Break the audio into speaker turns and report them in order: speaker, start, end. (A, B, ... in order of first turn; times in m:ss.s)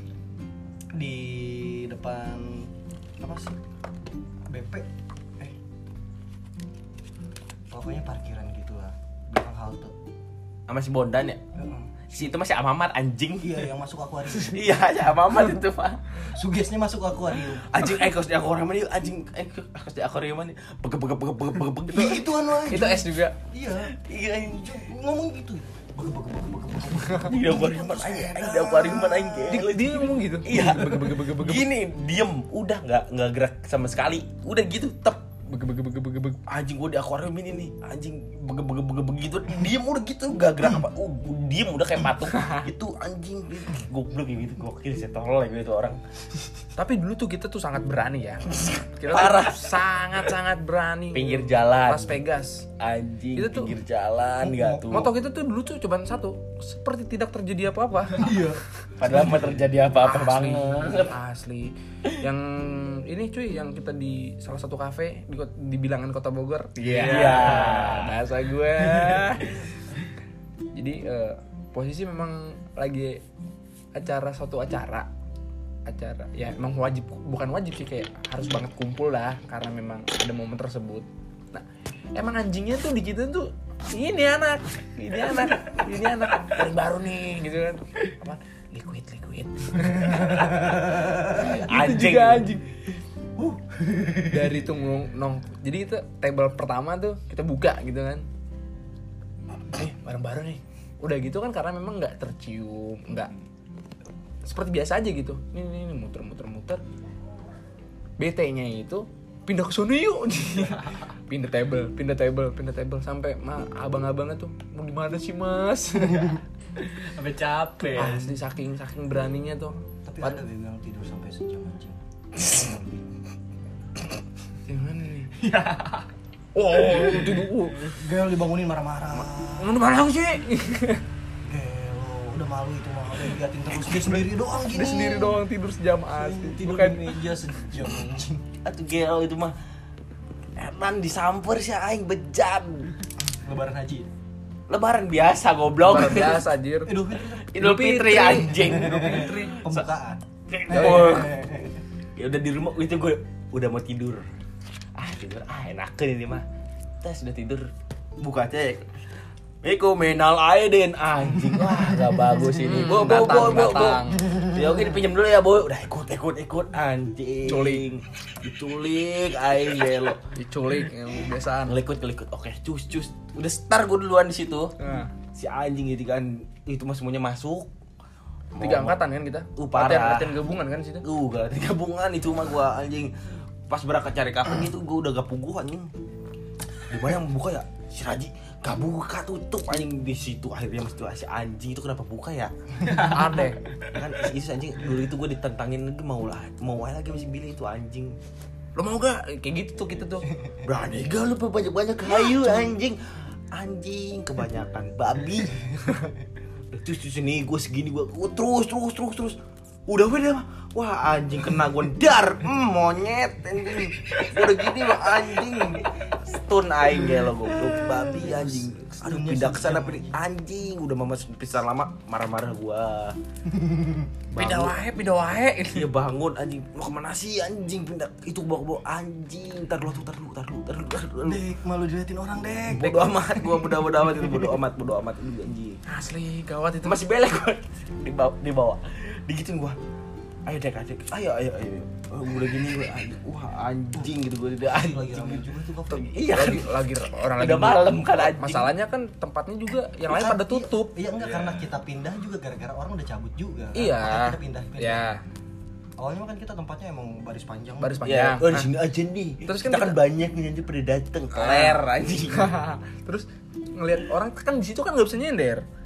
0:00.9-0:03.6 A
0:04.5-0:05.6 A
0:07.7-0:09.9 A
0:10.7-0:11.4 B
0:11.5-0:12.2 A
0:12.1-0:13.7 B
0:13.4-0:14.7 A
0:14.4-0:16.1 B
0:16.2-0:17.9 A
0:17.6-0:22.3 B
0:21.9-0:29.7 A
0:22.7-0:23.4 C
0:23.9-0:24.8 B
0:27.2-0:35.4 B
0:29.5-0:31.7 C
0:35.4-0:36.4 C
0:36.4-0:46.0 B
0:42.3-0:42.7 C
0:46.8-0:52.7 C
0:49.1-0:49.8 B
0:51.1-0:52.2 B
0:52.8-0:55.1 B
0:53.4-0:53.7 C
0:54.4-0:55.0 A
0:54.9-0:58.3 C
0:58.1-0:58.6 A
0:59.0-1:01.1 B
1:00.0-1:09.7 C
1:06.8-1:08.2 B
1:06.8-1:07.9 D
1:10.7-1:13.2 C
1:13.9-1:15.1 C
1:15.9-1:30.6 C
1:30.8-1:32.6 B
1:31.2-1:32.7 C
1:34.2-1:38.2 C
1:39.7-1:43.3 C
1:44.4-1:46.8 C
1:48.2-1:56.4 C
1:56.8-1:58.4 D
1:57.9-2:00.4 C
2:00.0-2:03.0 A
2:04.6-2:05.3 C
2:05.3-2:06.1 D
2:06.5-2:07.9 C
2:07.8-2:09.7 A
2:09.3-2:11.0 C
2:11.4-2:15.4 A
2:14.7-2:17.0 C
2:16.1-2:18.4 A
2:18.6-2:19.5 B
2:20.6-2:22.9 B
2:23.3-2:24.1 A
2:24.7-2:26.5 B
2:25.8-2:27.0 C
2:26.8-2:27.6 A
2:27.5-2:29.8 B
2:27.6-2:29.5 C
2:28.5-2:31.7 A
2:30.5-2:31.5 B
2:30.7-2:31.2 C
2:32.2-2:34.2 B
2:35.0-2:36.4 B
2:37.0-2:37.7 B
2:38.2-2:39.0 B
2:39.6-2:50.2 B
2:42.5-2:44.4 C
2:47.4-2:47.8 C
2:50.3-2:51.8 C
2:51.7-2:54.7 B
2:54.8-2:55.1 C
2:55.3-2:57.7 B
2:58.5-2:59.0 B
2:58.6-3:01.0 C
2:59.6-3:00.4 B
3:01.0-3:03.1 B
3:03.7-3:05.9 B
3:06.9-3:12.5 B
3:12.8-3:13.4 D
3:12.8-3:13.6 C
3:13.8-3:18.2 B
3:18.8-3:20.3 C
3:20.6-3:23.0 B
3:23.5-3:25.8 B
3:26.7-3:43.2 B
3:37.9-3:40.2 A
3:43.5-3:44.1 A
3:44.3-3:44.8 B
3:44.3-3:45.9 C
3:45.7-3:51.4 B
3:51.2-3:54.6 A
3:52.7-3:55.8 B
3:55.8-3:57.0 C
3:56.8-3:59.8 B
4:00.4-4:06.8 B
4:04.7-4:06.1 A
4:06.1-4:10.9 C
4:07.4-4:08.7 B
4:10.0-4:15.1 A
4:11.2-4:11.7 D
4:13.7-4:15.2 C
4:16.0-4:18.0 A
4:17.8-4:18.7 C
4:18.0-4:22.6 B
4:19.4-4:20.0 C
4:21.3-4:25.6 C